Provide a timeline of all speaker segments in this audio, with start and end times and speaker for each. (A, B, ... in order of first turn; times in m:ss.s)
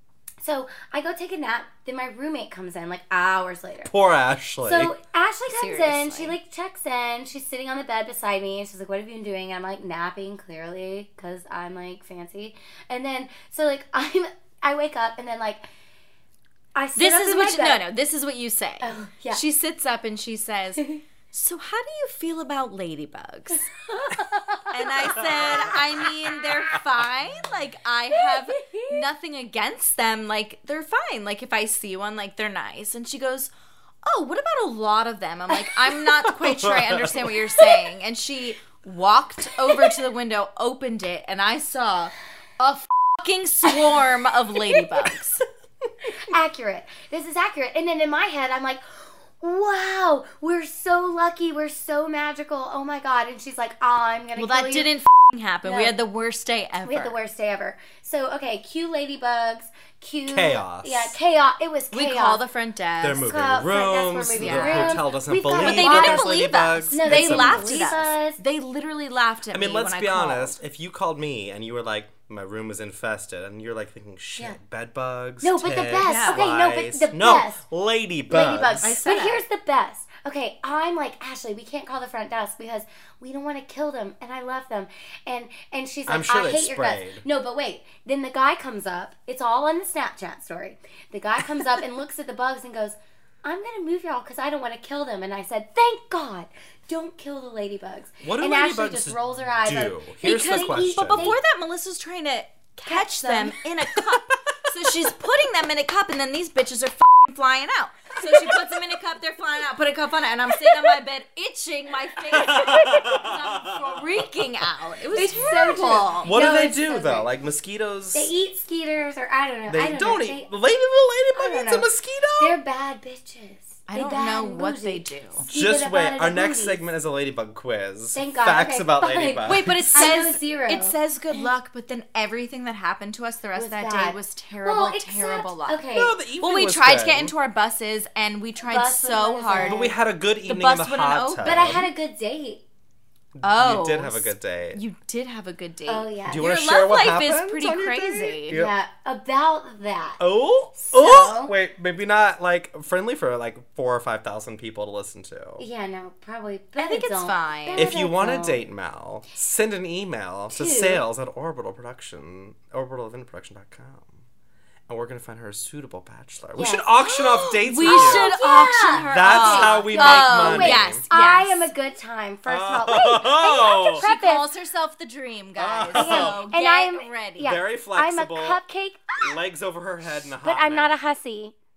0:00.4-0:03.9 A
0:03.8-0:04.9 B
0:04.6-0:15.6 A
0:05.4-0:06.4 C
0:16.7-0:17.8 A
0:17.0-0:33.5 C
0:18.8-0:19.4 A
0:23.9-0:24.7 A
0:25.1-0:25.9 B
0:28.3-0:28.9 A
0:34.0-0:45.4 C
0:36.2-0:37.8 B
0:46.1-0:54.9 A
0:54.4-0:57.2 C
0:55.6-0:56.0 A
0:56.8-1:02.4 A
1:00.2-1:01.2 B
1:01.9-1:03.2 C
1:03.0-1:07.9 B
1:03.1-1:08.4 A
1:04.3-1:05.0 C
1:05.6-1:10.6 C
1:09.5-1:19.0 B
1:15.4-1:17.6 A
1:16.0-1:16.4 C
1:18.3-1:41.4 A
1:18.8-1:19.4 C
1:26.0-1:27.2 B
1:38.2-1:41.3 B
1:40.2-1:56.4 C
1:42.8-1:43.6 A
1:43.9-1:44.2 B
1:52.3-1:54.4 B
1:55.1-1:57.3 A
1:56.2-1:58.3 B
1:58.1-2:00.5 A
1:59.7-2:02.6 B
2:01.4-2:06.8 A
2:03.9-2:05.4 C
2:05.4-2:10.2 B
2:08.1-2:11.4 A
2:09.5-2:21.7 C
2:13.6-2:16.1 A
2:15.9-2:17.3 B
2:18.6-2:20.0 A
2:19.5-2:21.9 B
2:21.4-2:22.6 A
2:23.4-2:24.8 B
2:23.4-2:28.6 C
2:25.9-2:26.4 A
2:26.2-2:28.7 B
2:28.5-2:30.2 A
2:30.2-2:35.6 B
2:30.8-2:31.6 A
2:35.6-2:38.6 A
2:36.8-2:37.9 C
2:37.7-2:44.2 B
2:40.5-2:41.0 A
2:44.9-2:48.4 B
2:46.6-2:46.9 A
2:47.0-2:51.7 C
2:47.8-2:54.5 A
2:49.0-2:51.0 B
2:52.5-2:54.0 B
2:54.0-2:57.5 C
2:55.5-2:56.4 B
2:55.9-2:59.2 A
2:57.4-2:58.6 B
2:59.2-3:00.9 B
3:00.4-3:01.5 A